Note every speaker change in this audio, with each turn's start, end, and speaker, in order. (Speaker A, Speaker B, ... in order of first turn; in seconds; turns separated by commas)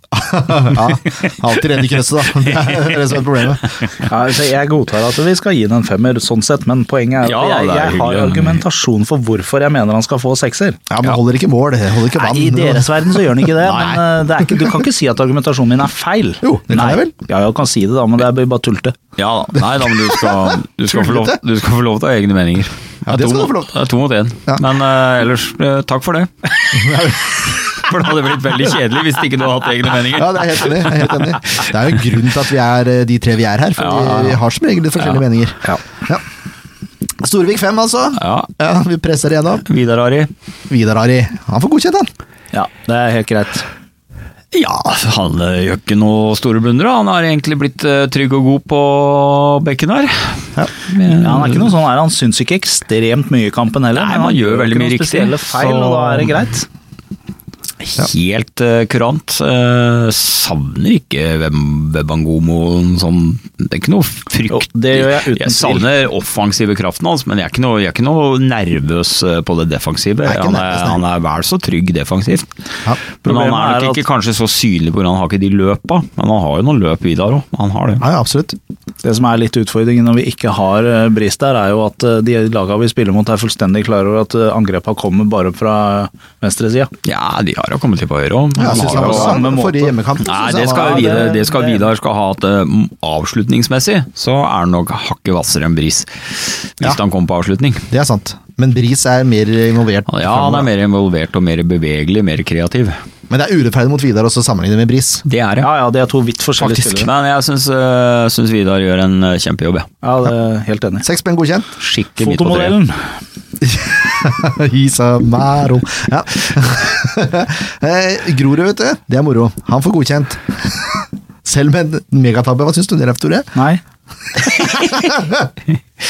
Speaker A: 0.1-3.9, Speaker B: 0.8-1.3, Speaker B: 2.4-3.0, Speaker C: 4.0-10.8, Speaker B: 7.2-8.6, Speaker A: 10.9-13.9, Speaker C: 12.1-19.0, Speaker B: 13.6-14.0, Speaker A: 16.4-17.1, Speaker B: 19.2-31.3, Speaker A: 20.2-21.4, Speaker A: 23.1-23.7, Speaker A: 26.7-27.6, Speaker A: 30.1-36.2, Speaker B: 33.8-34.4, Speaker A: 37.2-39.6, Speaker B: 38.2-38.5, Speaker B: 39.6-40.3, Speaker A: 40.7-42.1, Speaker C: 42.5-43.6, Speaker B: 44.5-51.7, Speaker C: 51.2-56.6, Speaker B: 53.9-56.5, Speaker B: 57.8-72.5, Speaker C: 64.5-65.9, Speaker A: 70.2-71.0, Speaker B: 73.2-78.0, Speaker C: 73.2-74.0, Speaker A: 78.0-78.5, Speaker C: 79.0-86.9, Speaker B: 87.0-89.4, Speaker A: 88.6-91.2, Speaker C: 88.6-91.8, Speaker B: 90.2-97.9, Speaker A: 97.9-100.7, Speaker B: 100.1-103.0, Speaker A: 103.3-105.2, Speaker B: 105.2-105.7, Speaker C: 105.6-107.1, Speaker A: 106.6-107.0, Speaker B: 106.9-109.9, Speaker C: 110.0-111.0, Speaker A: 111.0-111.7, Speaker B: 111.8-112.8, Speaker C: 112.2-113.0, Speaker A: 113.6-123.5, Speaker C: 123.5-123.8, Speaker A: 124.4-125.5